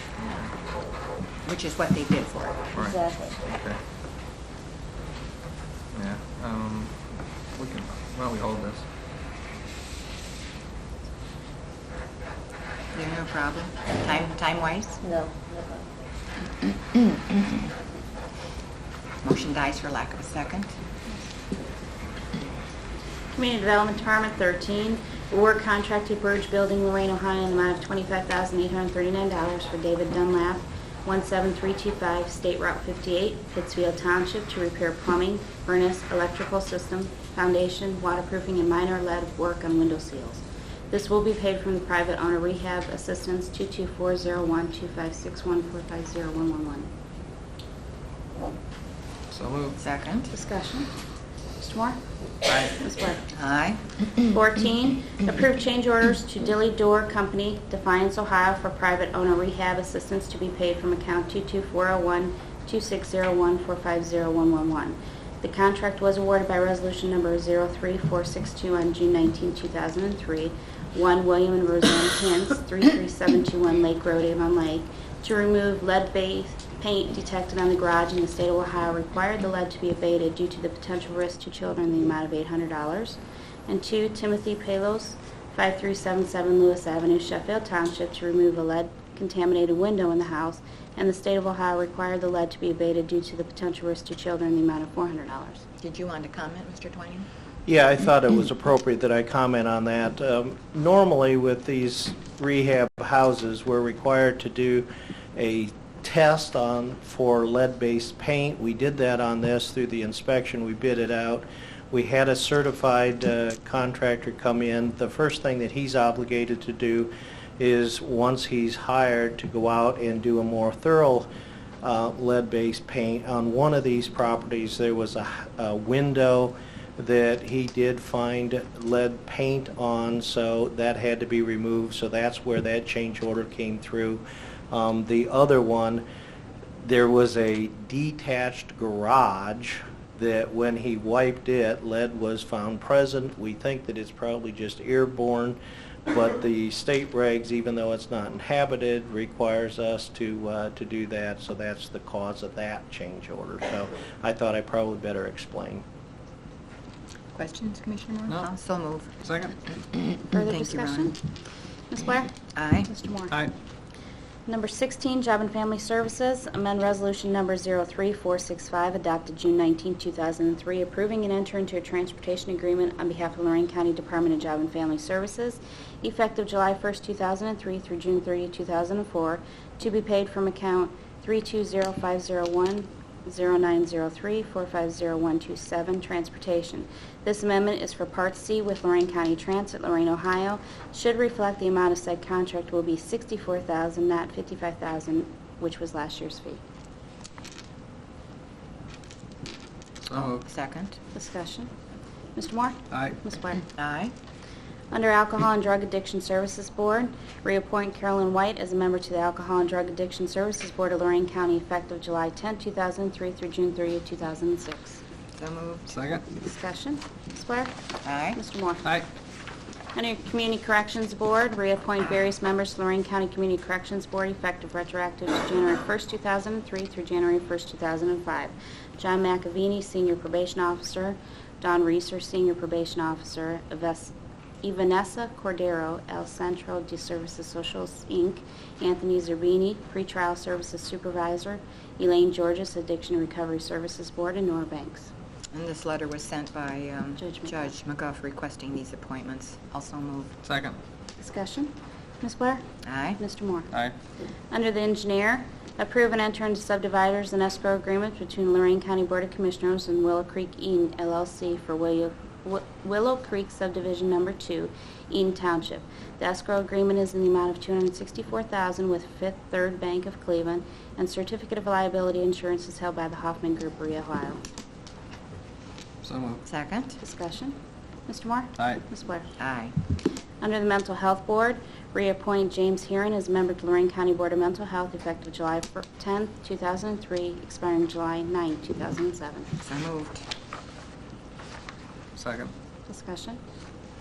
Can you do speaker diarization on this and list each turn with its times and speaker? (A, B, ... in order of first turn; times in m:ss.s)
0:01.4-0:02.7 A
0:02.7-0:03.8 B
0:05.9-0:06.9 B
0:07.6-0:08.8 B
0:12.9-0:15.0 A
0:19.2-0:20.7 A
0:23.3-0:46.9 C
0:49.3-0:49.8 B
0:49.8-0:50.3 A
0:50.3-0:50.9 C
0:51.6-0:52.0 C
0:52.5-0:52.7 B
0:52.7-0:53.2 C
0:53.3-0:53.8 A
0:54.2-1:35.6 C
1:35.8-1:37.3 A
1:37.7-2:01.3 D
2:01.8-2:16.0 D
2:16.8-2:35.8 D
2:37.3-2:39.1 A
2:39.2-2:39.6 B
2:40.3-2:41.2 C
2:40.4-2:41.2 A
2:41.9-2:43.4 C
2:42.6-2:42.9 A
2:44.5-3:16.6 C
3:20.1-3:20.4 B
3:20.1-3:21.0 A
3:21.1-3:21.7 C
3:22.4-3:23.6 C
3:23.8-3:24.1 A
3:24.9-3:35.0 C
3:35.4-3:35.9 A
3:35.9-3:36.2 B
3:36.3-3:37.7 C
3:38.0-3:38.4 A
3:38.3-3:38.9 C
3:39.9-4:05.1 C
4:05.5-4:10.3 A
4:07.2-4:07.7 C
4:10.4-4:10.8 B
4:11.2-4:12.6 C
4:12.8-4:13.2 A
4:13.2-4:13.7 C
4:14.5-4:34.4 C
4:36.0-4:36.4 B
4:36.4-4:37.0 A
4:37.0-4:39.3 C
4:39.4-4:39.8 A
4:40.4-4:49.5 C
4:49.6-4:50.2 A
4:52.2-4:52.5 B
4:52.9-4:53.4 C